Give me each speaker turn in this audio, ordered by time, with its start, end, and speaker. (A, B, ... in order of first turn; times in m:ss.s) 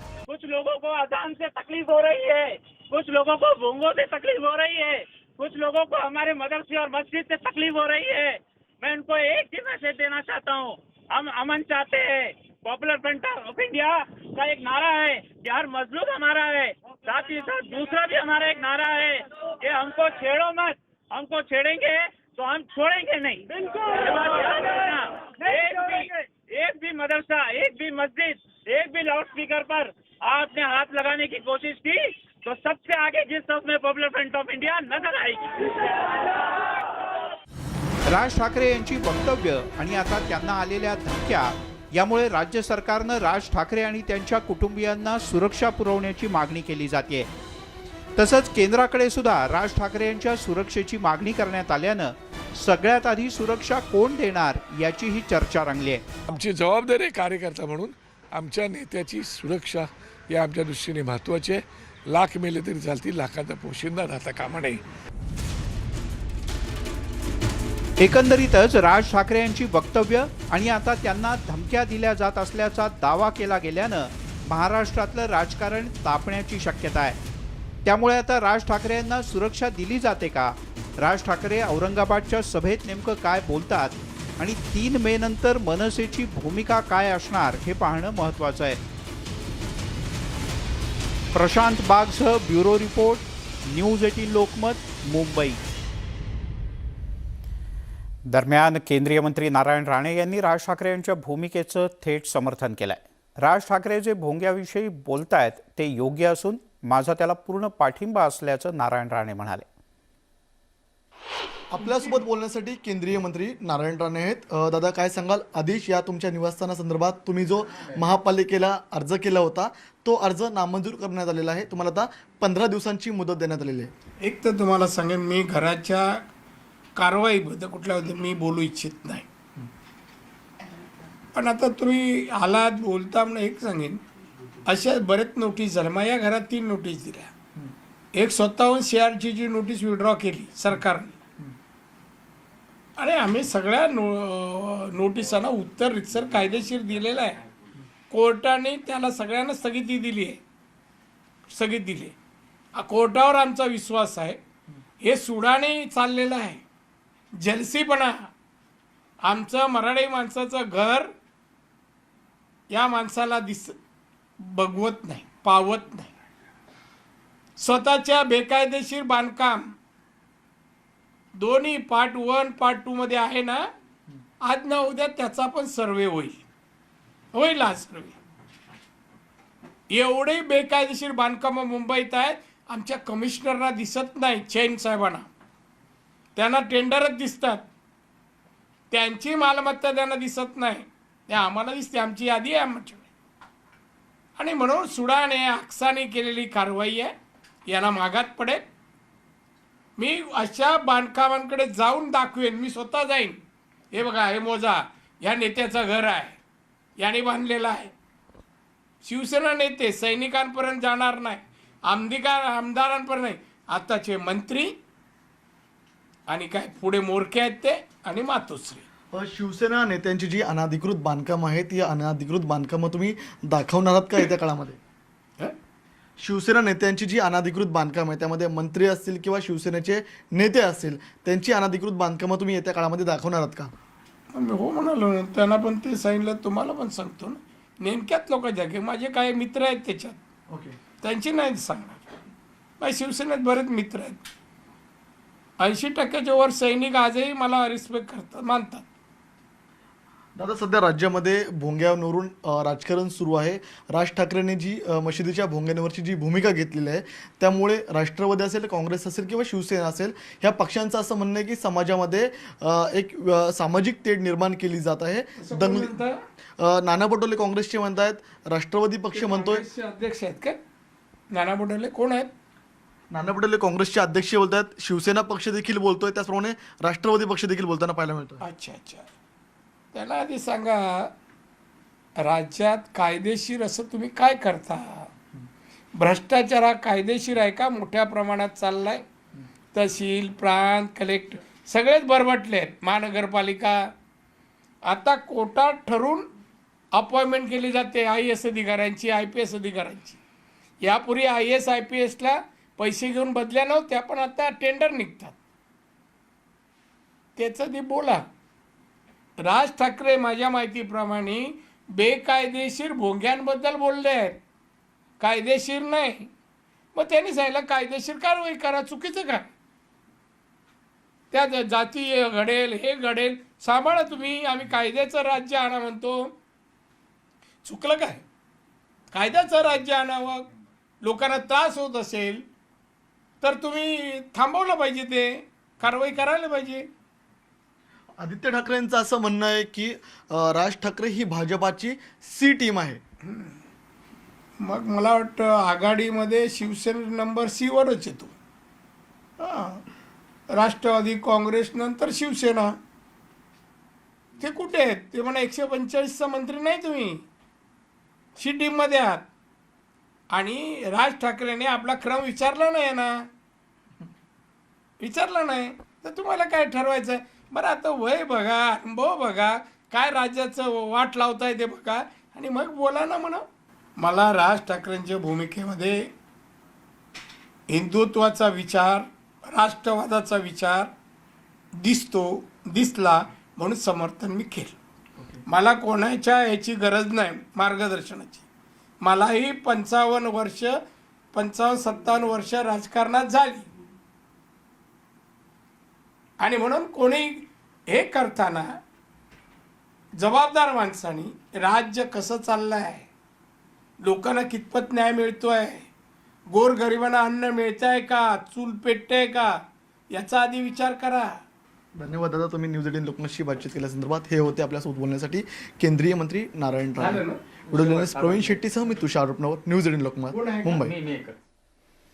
0:00.3-0:35.8 A
0:38.0-0:47.3 B
0:48.2-0:56.2 B
0:56.3-1:04.8 C
1:08.0-1:17.2 B
1:17.8-1:28.8 B
1:31.3-1:35.6 B
1:38.3-1:49.7 B
1:51.7-2:03.9 D
2:04.2-2:06.3 E
2:07.0-2:09.3 E
2:11.3-2:14.0 E
2:14.7-2:17.3 E
2:18.2-2:21.2 E
2:23.0-2:27.4 E
2:28.1-2:30.4 E
2:31.5-2:32.1 E
2:32.8-2:34.4 E
2:35.0-2:36.6 E
2:37.4-2:38.3 E
2:39.2-2:41.1 E
2:42.7-2:43.8 E
2:44.4-2:46.1 E
2:47.6-2:49.8 E
2:51.4-2:53.7 E
2:54.5-2:56.4 E
2:57.3-2:58.2 E
2:59.9-3:05.3 E
3:06.4-3:07.7 E
3:08.9-3:13.1 E
3:14.4-3:17.1 E
3:17.7-3:18.6 E
3:20.0-3:23.4 E
3:23.9-3:26.4 E
3:27.0-3:27.9 E
3:29.0-3:34.8 E
3:36.3-3:38.8 E
3:39.1-3:44.8 D
3:46.2-3:53.7 D
3:54.3-4:00.2 E
4:00.5-4:00.8 D
4:01.0-4:02.2 E
4:02.8-4:04.2 E
4:05.6-4:08.9 E
4:10.4-4:26.0 D
4:25.4-4:26.2 E
4:26.6-4:29.6 D
4:29.1-4:30.6 E
4:31.3-4:32.3 E
4:33.1-4:38.4 D
4:38.4-4:39.1 E
4:39.9-4:41.1 E
4:42.2-4:45.1 E
4:46.0-4:49.0 E
4:49.7-4:53.9 E
4:54.9-4:56.3 E
4:57.0-5:00.2 E
5:00.8-5:05.4 E
5:07.4-5:08.3 E
5:09.4-5:14.4 E
5:15.2-5:16.3 E
5:17.0-5:19.5 E
5:21.3-5:26.3 E
5:27.6-5:28.2 E
5:29.1-5:30.5 E
5:31.0-5:32.4 E
5:33.4-5:36.9 E
5:38.2-5:43.0 D
5:43.2-5:43.6 E
5:44.6-5:48.4 E
5:49.4-5:49.8 E
5:50.5-5:52.8 E
5:54.4-5:57.2 E
5:58.4-5:59.2 E
6:00.3-6:03.3 E
6:05.0-6:13.4 E
6:14.0-6:16.1 E
6:17.7-6:20.9 E
6:21.8-6:24.8 E
6:25.5-6:28.4 E
6:29.0-6:30.8 E
6:31.3-6:33.7 E
6:36.4-6:38.7 E
6:40.2-6:43.1 E
6:44.0-6:45.9 E
6:46.5-6:49.6 E
6:50.1-6:51.4 E
6:52.0-7:01.0 D
6:57.0-6:58.6 E
7:00.3-7:01.4 E